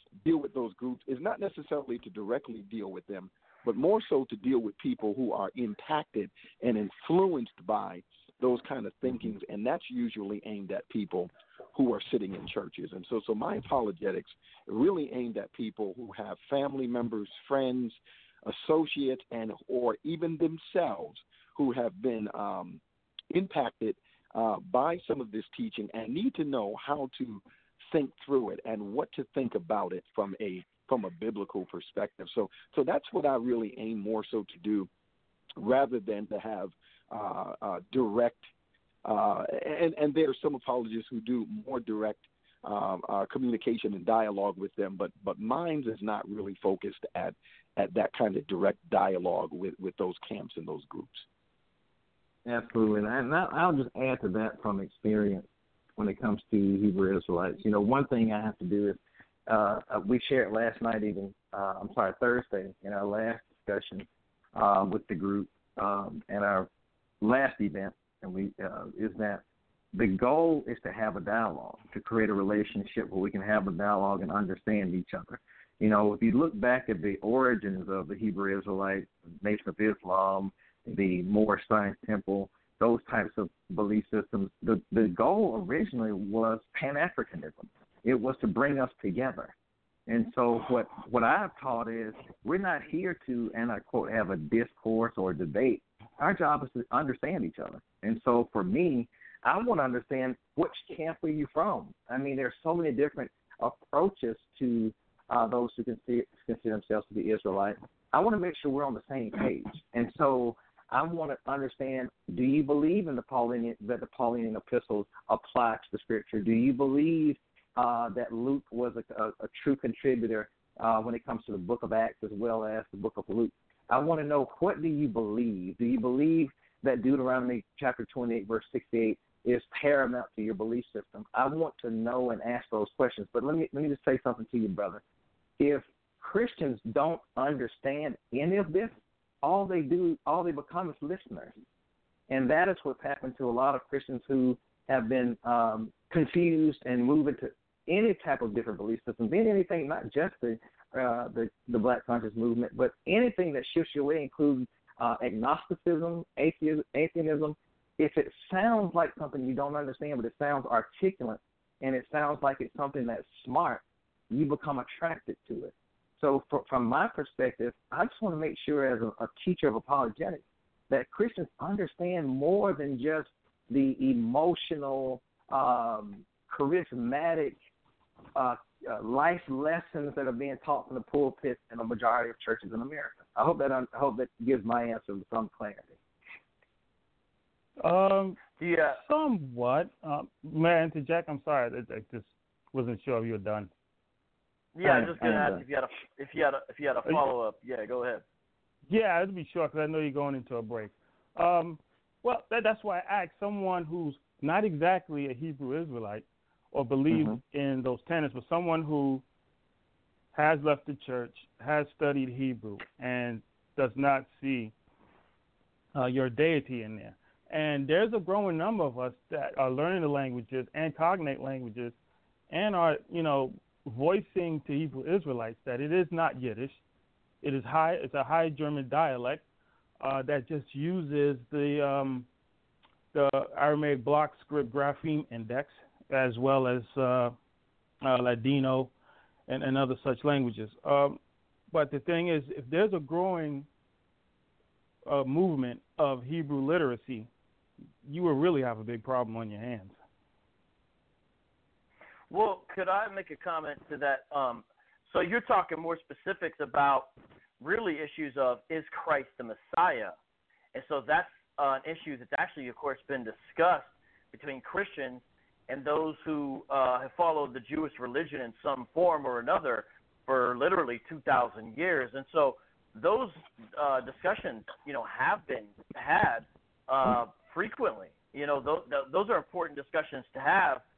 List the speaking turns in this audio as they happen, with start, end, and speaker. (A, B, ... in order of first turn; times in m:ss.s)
0:00.2-0:34.9 A
0:35.6-0:38.5 A
0:39.0-0:51.3 A
0:52.4-1:06.7 B
1:07.2-1:09.4 B
1:09.9-1:29.5 B
1:30.1-2:15.0 B
2:15.6-2:21.5 B
2:22.3-2:57.6 B
2:58.3-3:06.0 B
3:07.8-3:08.4 C
3:08.6-3:09.0 D
3:09.0-3:13.7 C
3:14.7-3:18.2 D
3:14.8-3:15.6 B
3:18.9-3:29.2 C
3:27.1-3:27.4 B
3:30.3-3:34.7 C
3:35.9-3:42.0 C
3:42.5-3:46.8 C
3:47.4-3:49.4 C
3:50.0-3:52.3 C
3:53.1-3:57.3 C
3:58.0-3:58.9 C
3:59.5-4:01.2 C
4:01.7-4:03.7 C
4:05.1-4:07.3 C
4:08.0-4:10.0 C
4:12.3-4:17.1 D
4:17.6-4:20.1 D
4:20.7-4:40.8 D